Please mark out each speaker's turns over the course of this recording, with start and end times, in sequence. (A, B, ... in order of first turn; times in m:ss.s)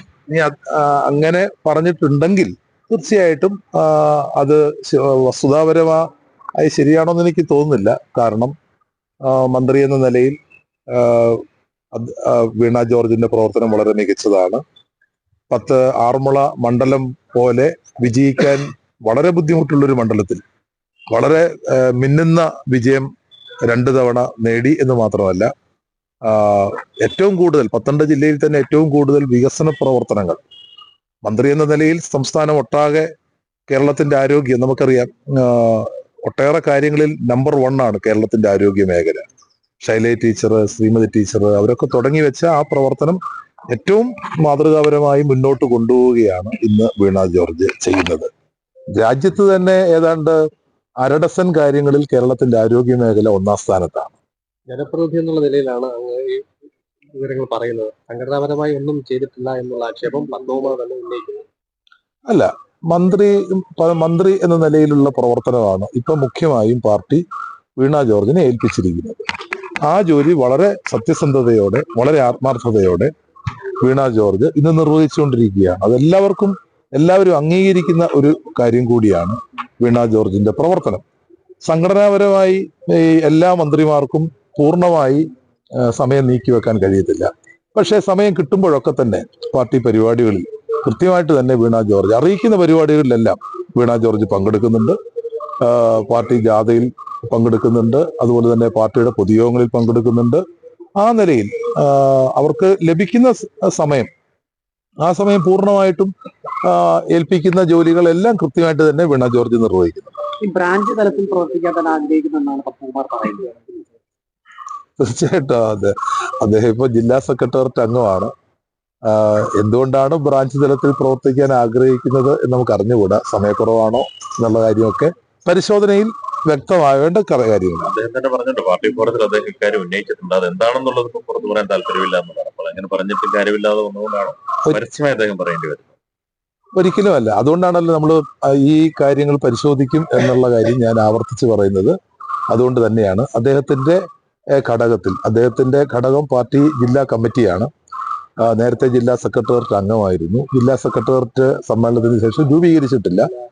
0:00.3-0:06.0 A
0:06.6-0:08.5 A
0:09.2-0:10.4 A
0:10.9-0:14.6 A
0:15.5-0:20.4 A
0:21.1-0:23.1 A
0:23.6-0:25.5 A
0:26.2-0:30.4 A
0:31.2-0:33.1 A
0:33.7-0:39.3 A
0:39.8-0:48.3 A
0:49.0-0:50.4 A
0:51.0-0:54.1 A
0:54.7-0:56.4 B
0:57.1-1:01.4 B
1:02.3-1:07.2 A
1:07.8-1:09.2 A
1:09.8-1:13.1 A
1:13.8-1:21.0 A
1:21.6-1:25.3 A
1:25.8-1:35.0 A
1:35.6-1:40.4 A
1:41.0-1:44.1 A
1:45.0-1:46.1 A
1:46.6-1:50.2 A
1:50.4-1:53.8 C
1:55.0-1:58.3 A
1:59.1-2:07.9 A
2:07.8-2:15.9 D
2:16.8-2:22.0 A
2:22.5-2:24.0 A
2:24.6-2:27.7 A
2:28.4-2:33.3 A